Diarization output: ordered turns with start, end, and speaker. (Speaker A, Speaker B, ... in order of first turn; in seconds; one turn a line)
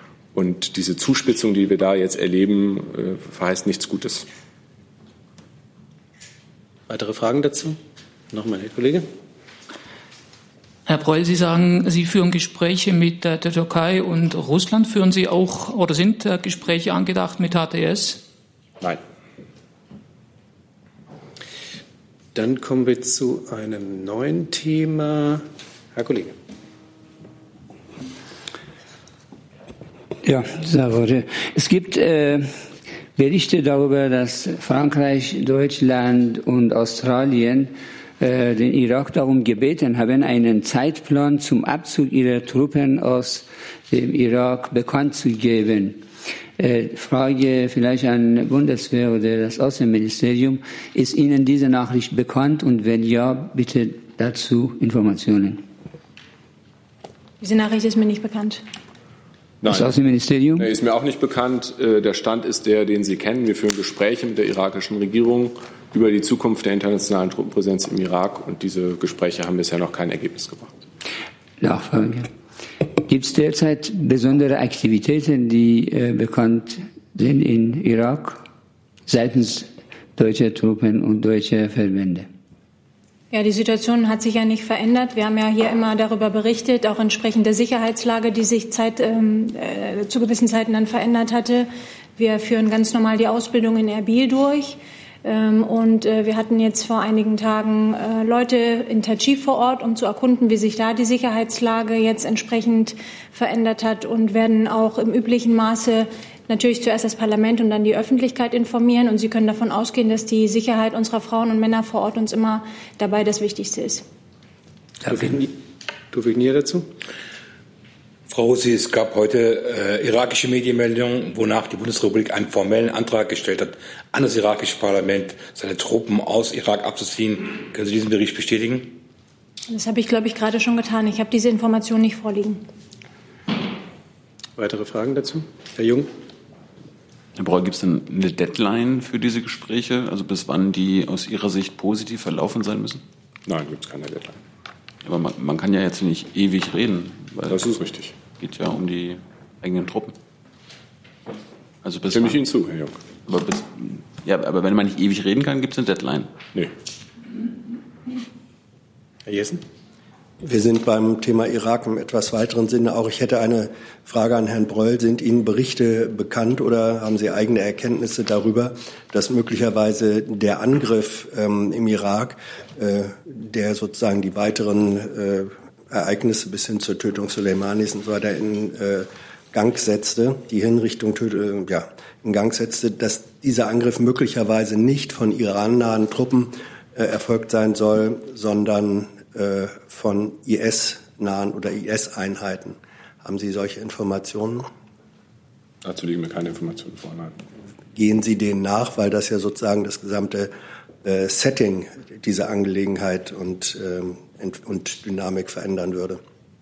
Speaker A: 0.3-4.2
Speaker B: 6.9-7.8
Speaker B: 8.3-9.1
Speaker C: 10.9-18.2
Speaker B: 22.3-26.4
Speaker D: 30.2-46.0
Speaker D: 46.6-55.6
Speaker E: 57.4-58.6
Speaker A: 59.6-60.0
Speaker D: 59.7-60.7
Speaker A: 60.6-70.7
Speaker D: 71.6-72.3
Speaker D: 72.9-78.4
Speaker D: 79.1-82.3
Speaker E: 83.3-114.0
Speaker B: 115.1-115.6
Speaker B: 116.1-116.9
Speaker F: 118.3-129.0
Speaker E: 129.7-132.6
Speaker B: 134.6-136.1
Speaker G: 137.4-143.0
Speaker A: 143.5-144.4
Speaker G: 145.0-147.7
Speaker A: 147.5-148.2
Speaker G: 148.4-150.2
Speaker G: 151.8-152.4
Speaker A: 152.1-153.0
Speaker G: 153.3-156.3
Speaker B: 159.3-159.6
Speaker H: 160.4-194.7
Speaker A: 195.8-197.4
Speaker H: 197.9-200.5
Speaker H: 201.0-206.2